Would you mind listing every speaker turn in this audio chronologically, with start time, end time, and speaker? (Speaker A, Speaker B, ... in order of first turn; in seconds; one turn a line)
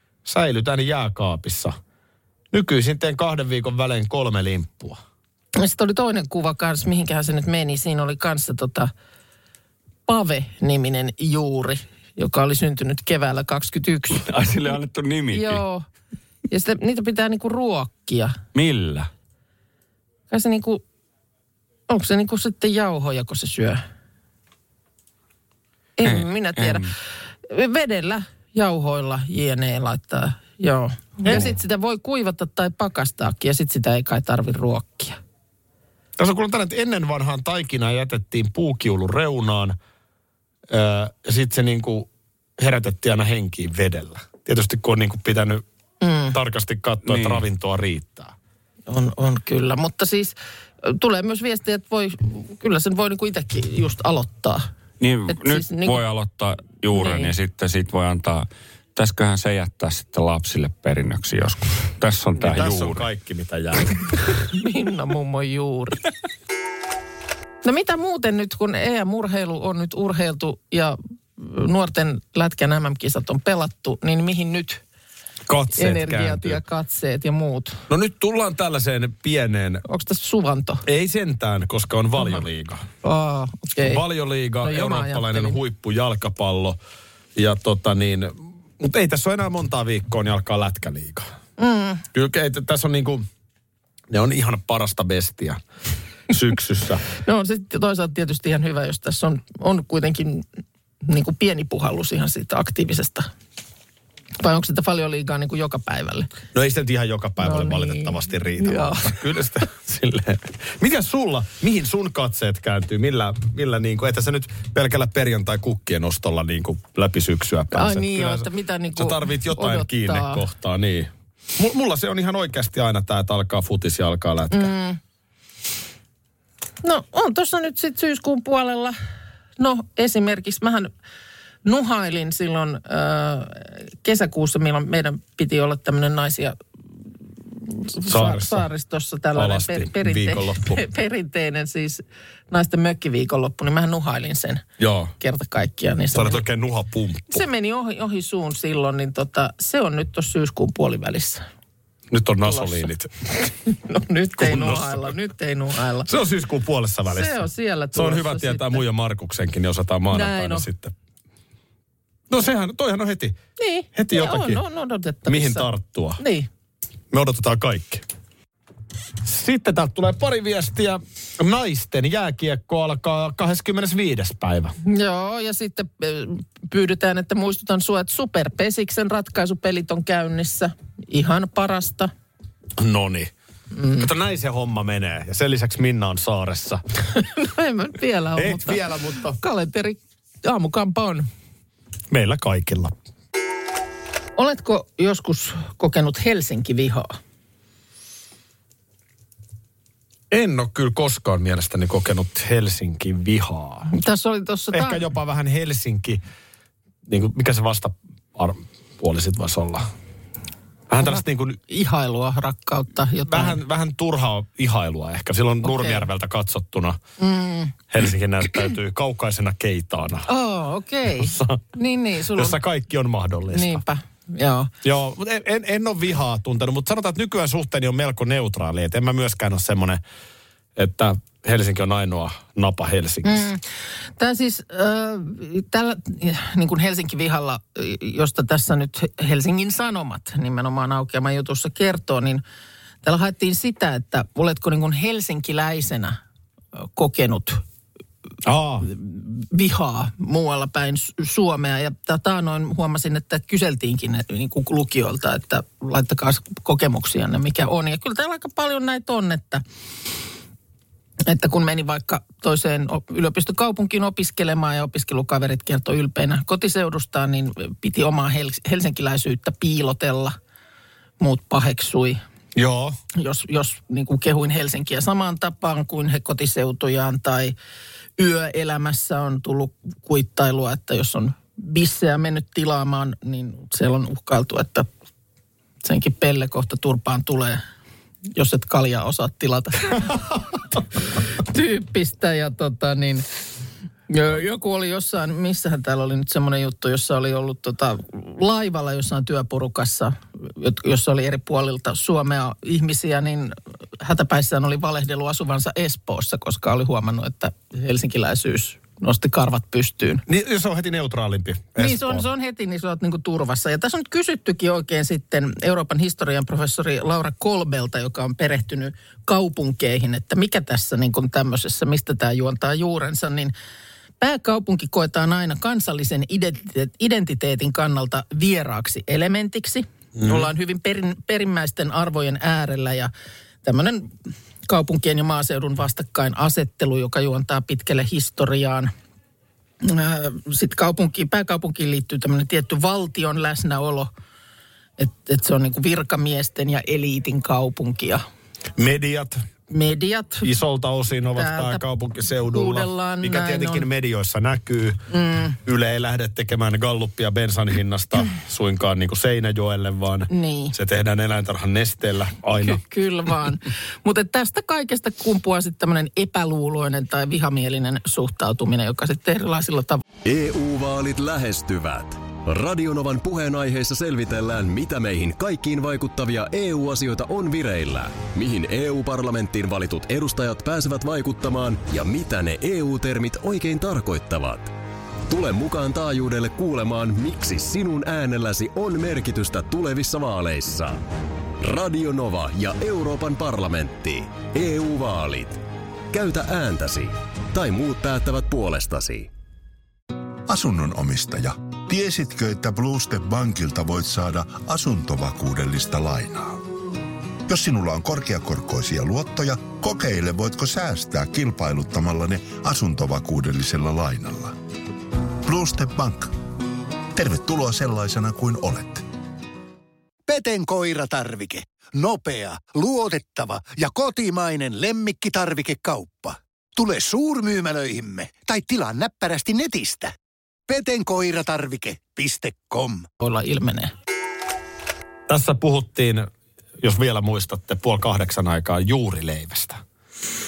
Speaker A: 0.2-1.8
Speaker A: 2.5-5.0
Speaker B: 5.6-8.9
Speaker B: 10.1-14.3
Speaker C: 14.2-15.6
Speaker B: 15.3-15.9
Speaker B: 16.5-18.4
Speaker C: 18.5-19.1
Speaker B: 20.3-20.8
Speaker B: 21.9-23.8
Speaker B: 26.0-26.9
Speaker C: 26.1-26.9
Speaker B: 27.5-35.2
Speaker A: 36.2-39.8
Speaker A: 40.7-45.6
Speaker B: 46.0-46.4
Speaker A: 46.3-48.3
Speaker C: 47.0-47.4
Speaker B: 48.9-54.7
Speaker C: 55.0-63.0
Speaker B: 55.3-56.0
Speaker B: 56.9-57.3
Speaker A: 62.3-64.2
Speaker B: 64.5-66.0
Speaker B: 67.6-74.8
Speaker A: 75.5-76.6
Speaker B: 75.7-77.8
Speaker A: 77.9-79.8
Speaker B: 79.8-80.8
Speaker A: 80.9-82.9
Speaker B: 83.0-84.0
Speaker A: 83.8-86.8
Speaker B: 84.6-85.6
Speaker A: 87.3-91.3
Speaker B: 91.6-92.0
Speaker A: 92.1-93.3
Speaker A: 94.1-95.6
Speaker A: 96.3-97.0
Speaker B: 97.2-100.5
Speaker B: 101.0-103.3
Speaker B: 104.4-106.3
Speaker A: 106.5-124.7
Speaker B: 107.4-109.2
Speaker B: 117.7-120.4
Speaker B: 124.5-125.0
Speaker B: 126.8-129.0
Speaker B: 129.6-130.9
Speaker B: 131.7-136.6
Speaker B: 137.6-144.7
Speaker A: 138.1-138.7
Speaker A: 139.3-140.8
Speaker A: 144.8-145.1
Speaker B: 145.2-146.4
Speaker A: 146.1-147.4
Speaker B: 147.3-151.4
Speaker A: 152.1-153.1
Speaker B: 152.4-152.9
Speaker B: 153.4-156.1
Speaker A: 154.4-155.2
Speaker A: 156.1-157.4
Speaker B: 157.1-158.8
Speaker A: 157.9-160.9
Speaker B: 160.1-160.7
Speaker A: 162.3-163.4
Speaker B: 163.6-166.5
Speaker A: 163.9-164.6
Speaker A: 165.3-166.2
Speaker A: 167.1-168.1
Speaker A: 169.2-174.8
Speaker B: 174.8-182.1
Speaker A: 182.8-183.3
Speaker B: 183.7-184.1
Speaker A: 184.0-186.8
Speaker B: 187.2-191.3
Speaker A: 188.4-189.4
Speaker A: 192.1-192.9
Speaker B: 194.4-197.2
Speaker A: 200.3-203.9
Speaker B: 203.9-205.1
Speaker A: 204.7-206.2
Speaker A: 207.1-209.9
Speaker A: 210.9-211.6
Speaker B: 211.0-213.6
Speaker A: 213.3-217.0
Speaker B: 215.6-216.1
Speaker B: 217.2-217.8
Speaker A: 217.9-220.3
Speaker B: 220.3-222.6
Speaker A: 221.1-221.6
Speaker A: 222.3-223.8
Speaker B: 223.5-224.7
Speaker A: 224.8-230.0
Speaker A: 230.8-233.5
Speaker B: 233.2-233.6
Speaker B: 234.2-242.4
Speaker B: 243.0-246.2
Speaker B: 246.9-247.6
Speaker A: 248.4-248.9
Speaker B: 248.9-259.6
Speaker B: 261.3-270.4
Speaker B: 271.2-272.2
Speaker A: 272.6-273.0
Speaker B: 273.1-277.6
Speaker B: 278.2-284.9
Speaker B: 285.8-287.6
Speaker B: 288.4-290.2
Speaker B: 291.3-293.3
Speaker B: 294.1-310.2
Speaker A: 310.3-312.3
Speaker B: 311.8-323.5
Speaker B: 324.2-333.1
Speaker B: 333.6-334.1
Speaker B: 334.7-338.9
Speaker B: 339.8-344.1
Speaker B: 345.0-348.2
Speaker A: 348.8-349.4
Speaker B: 349.7-350.5
Speaker A: 350.4-362.8
Speaker B: 351.4-351.8
Speaker B: 352.5-353.9
Speaker B: 355.1-355.6
Speaker B: 360.3-360.8
Speaker B: 362.6-370.0
Speaker D: 370.2-384.7
Speaker D: 385.3-391.1
Speaker D: 391.6-399.3
Speaker E: 400.5-406.6
Speaker E: 407.5-414.6
Speaker E: 415.4-416.3
Speaker E: 417.1-419.0
Speaker F: 420.3-430.1
Speaker F: 430.7-433.1
Speaker B: 433.2-433.9
Speaker A: 435.3-436.3
Speaker A: 436.8-439.8